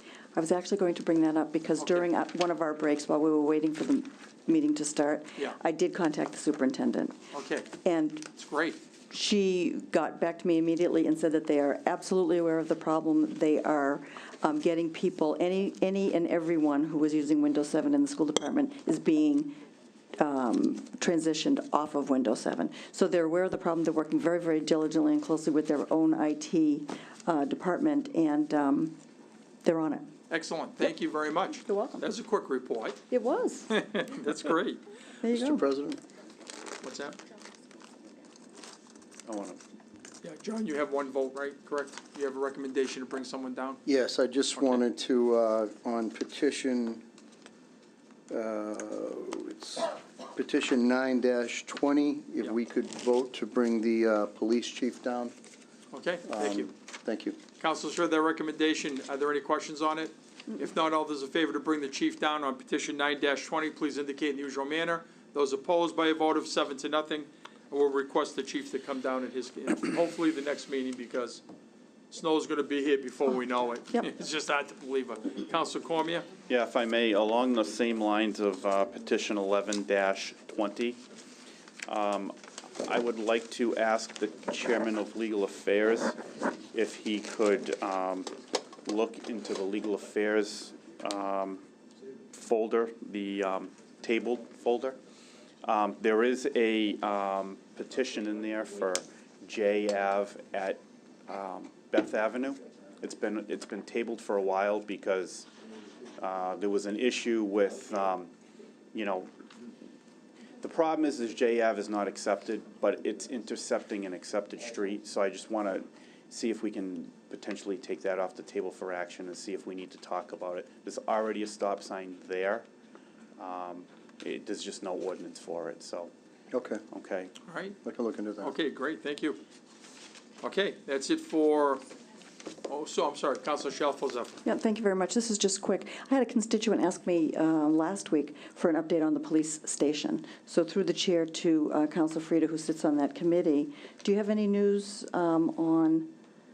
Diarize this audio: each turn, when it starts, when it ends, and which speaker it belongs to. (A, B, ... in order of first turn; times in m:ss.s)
0:00.3-0:07.2 A
0:01.8-0:02.1 B
0:07.3-0:07.7 B
0:07.8-0:08.3 A
0:08.4-0:08.8 B
0:09.1-0:19.6 A
0:20.2-0:29.0 A
0:29.6-0:30.1 A
0:30.3-0:33.0 B
0:31.5-0:32.0 A
0:33.1-0:33.7 A
0:33.7-0:34.8 B
0:35.2-0:35.6 A
0:35.3-0:36.0 C
0:36.8-0:37.2 B
0:39.2-0:39.6 D
0:40.2-0:43.8 B
0:43.8-0:47.0 C
0:44.6-0:44.8 B
0:48.3-0:55.3 C
0:55.9-0:56.7 B
0:56.3-0:57.4 C
0:57.6-1:11.4 B
1:12.1-1:16.3 B
1:16.5-1:21.0 D
1:21.8-1:26.2 D
1:26.7-1:28.3 D
1:28.8-1:31.6 D
1:32.3-1:35.0 D
1:35.6-1:45.5 D
1:46.2-1:48.3 D
1:48.9-1:49.3 D
1:50.6-2:02.7 D
2:03.4-2:06.1 D
2:06.5-2:06.8 C
2:06.9-2:07.3 D
2:07.5-2:07.8 B
2:07.8-2:08.5 C
2:08.4-2:09.4 B
2:10.4-2:11.8 B
2:12.6-2:14.4 B
2:14.4-2:26.1 A